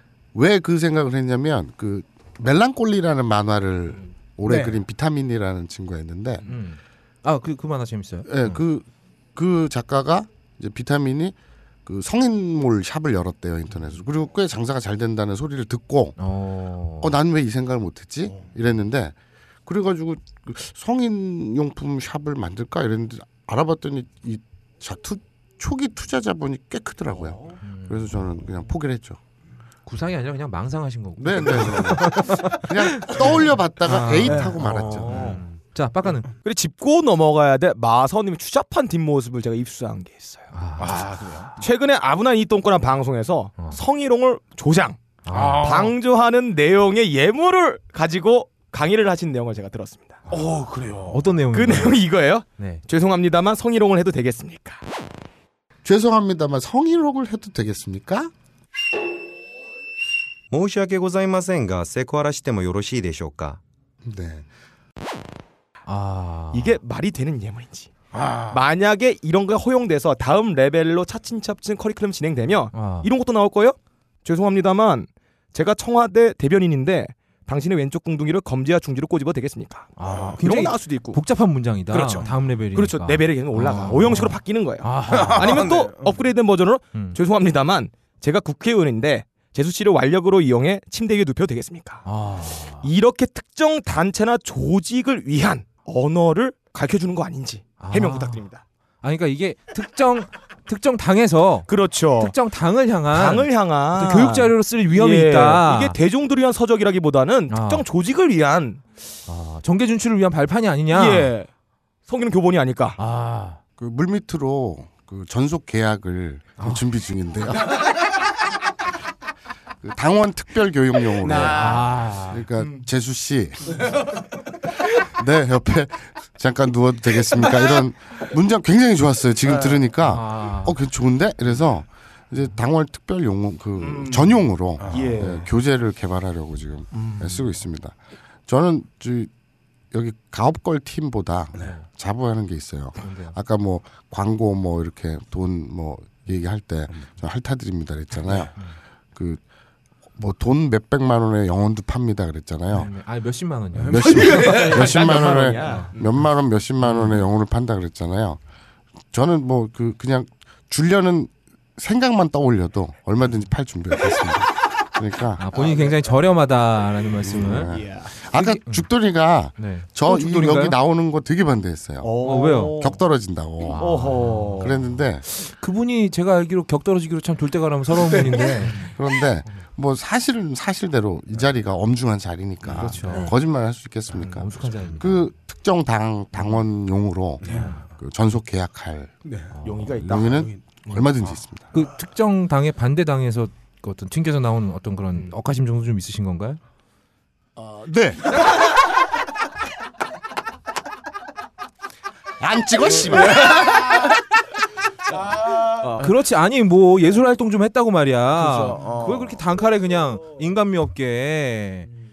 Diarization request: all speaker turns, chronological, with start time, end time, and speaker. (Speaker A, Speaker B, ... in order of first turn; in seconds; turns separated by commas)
Speaker A: 0.3-6.4, Speaker B: 4.5-4.8, Speaker C: 6.5-8.6, Speaker A: 8.2-16.1, Speaker C: 16.2-17.1, Speaker A: 17.0-19.1, Speaker A: 19.6-29.2, Speaker C: 27.6-28.2, Speaker C: 29.9-33.2, Speaker A: 31.2-35.1, Speaker C: 33.8-36.3, Speaker D: 34.5-35.4, Speaker D: 36.4-40.5, Speaker C: 40.5-41.0, Speaker B: 40.8-41.6, Speaker D: 41.6-50.2, Speaker C: 45.2-45.9, Speaker B: 45.3-45.9, Speaker B: 50.3-51.2, Speaker C: 51.1-52.0, Speaker D: 51.5-54.8, Speaker A: 55.8-58.3, Speaker E: 60.5-63.6, Speaker A: 64.0-64.4, Speaker C: 65.8-66.8, Speaker D: 66.5-67.9, Speaker B: 68.1-68.6, Speaker D: 68.5-81.2, Speaker C: 72.7-73.1, Speaker C: 80.0-85.7, Speaker B: 80.1-80.3, Speaker D: 81.9-92.0, Speaker B: 85.1-86.2, Speaker C: 92.0-92.9, Speaker D: 92.8-98.6, Speaker C: 97.8-98.4, Speaker C: 99.0-101.7, Speaker D: 101.7-102.3, Speaker C: 102.2-106.0, Speaker D: 103.1-108.8, Speaker C: 107.5-107.8, Speaker C: 109.3-111.3, Speaker D: 110.9-111.5, Speaker D: 112.1-113.0, Speaker C: 113.0-113.6, Speaker A: 113.8-117.9, Speaker A: 119.8-123.9, Speaker D: 121.2-121.8, Speaker C: 121.4-122.5, Speaker A: 124.9-137.9, Speaker C: 130.0-130.8, Speaker D: 133.8-135.5, Speaker B: 134.8-135.1, Speaker A: 138.5-139.3, Speaker A: 139.9-148.5, Speaker C: 141.6-141.8, Speaker C: 143.0-143.3, Speaker A: 149.1-149.4, Speaker A: 150.2-152.9, Speaker C: 152.7-154.7, Speaker B: 153.8-154.9, Speaker A: 153.8-158.4, Speaker D: 154.2-156.0, Speaker C: 155.6-155.9, Speaker C: 156.8-157.2, Speaker A: 159.1-165.4, Speaker C: 165.4-167.7, Speaker D: 165.5-166.0, Speaker A: 167.2-174.1, Speaker D: 167.7-168.1, Speaker C: 168.3-168.9, Speaker C: 169.6-170.8, Speaker D: 172.0-173.0, Speaker C: 172.2-172.8, Speaker D: 173.7-174.7, Speaker C: 173.7-178.9, Speaker A: 174.6-175.2, Speaker A: 178.8-189.1, Speaker C: 182.7-183.3, Speaker C: 184.2-185.2, Speaker B: 187.4-187.8, Speaker C: 187.5-187.8, Speaker B: 189.2-189.6, Speaker C: 189.5-189.9, Speaker D: 189.6-191.1, Speaker A: 189.9-191.7, Speaker B: 190.3-190.6, Speaker C: 191.7-196.6, Speaker A: 197.6-198.5, Speaker A: 202.4-203.8, Speaker B: 203.2-204.1, Speaker D: 203.5-203.8, Speaker B: 205.5-206.1, Speaker D: 205.8-206.0, Speaker C: 206.0-211.9, Speaker B: 208.3-209.4